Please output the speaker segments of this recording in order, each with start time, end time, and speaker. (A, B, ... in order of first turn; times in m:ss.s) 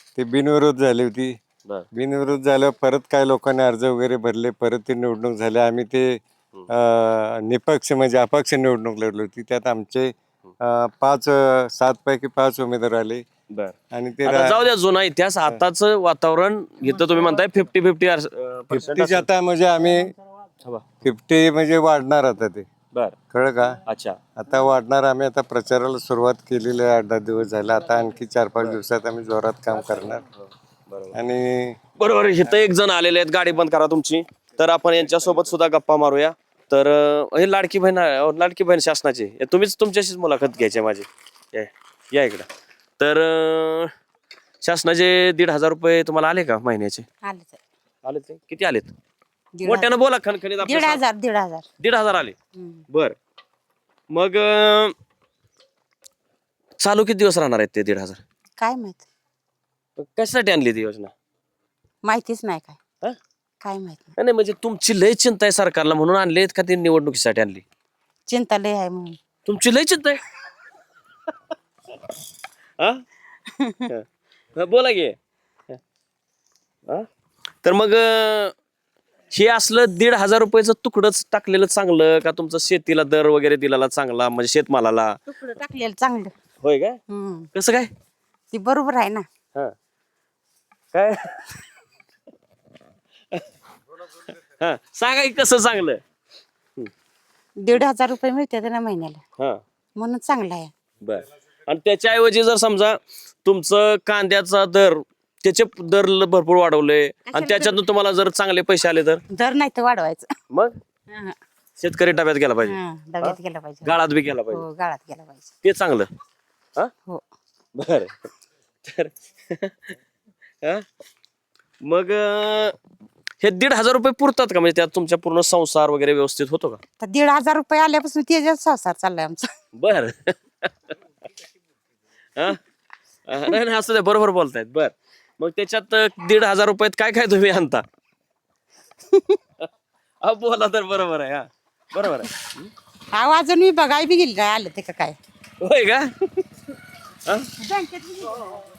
0:00.2-0:01.3 A
0:01.9-0:13.2 A
0:13.5-0:19.3 B
0:13.9-0:14.6 A
0:18.7-0:20.1 A
0:21.0-0:22.7 A
0:23.3-0:23.8 A
0:23.8-0:24.2 B
0:24.4-0:30.2 A
0:30.4-0:31.2 B
0:31.1-0:31.8 A
0:32.0-0:42.5 B
0:43.0-0:43.9 B
0:44.6-0:47.0 B
0:47.2-0:47.6 C
0:48.0-0:48.9 B
0:49.5-0:49.9 C
0:49.6-0:51.0 B
0:50.6-0:51.6 C
0:51.8-0:52.4 B
0:52.6-0:52.8 C
0:52.9-0:53.1 B
0:54.1-0:54.9 B
0:56.8-0:58.2 B
0:58.6-0:59.0 C
1:00.0-1:01.1 B
1:02.0-1:02.8 C
1:03.6-1:04.1 C
1:04.2-1:07.6 B
1:08.3-1:09.2 C
1:09.4-1:10.2 B
1:12.8-1:13.0 B
1:13.9-1:15.2 B
1:17.6-1:18.5 B
1:19.3-1:25.2 B
1:25.3-1:26.3 C
1:26.6-1:27.0 B
1:27.1-1:27.5 C
1:27.5-1:27.9 B
1:28.5-1:29.2 C
1:30.9-1:31.6 B
1:34.2-1:36.0 B
1:37.6-1:39.2 C
1:40.0-1:40.7 C
1:41.0-1:49.2 B
1:47.3-1:47.8 C
1:49.3-1:50.3 C
1:51.1-1:51.4 C
1:51.8-1:54.6 B
1:52.6-1:54.0 C
1:54.5-1:55.5 C
1:55.6-1:56.1 B
1:57.7-1:58.3 B
1:58.8-1:59.9 B
2:01.8-2:02.8 B
2:03.4-2:06.8 B
2:07.0-2:09.5 C
2:09.8-2:10.9 B
2:12.4-2:12.6 B
2:13.3-2:17.8 B
2:19.1-2:19.4 C
2:20.2-2:22.7 B
2:23.1-2:25.2 C
2:25.6-2:26.1 B
2:27.2-2:27.5 B
2:27.6-2:28.4 C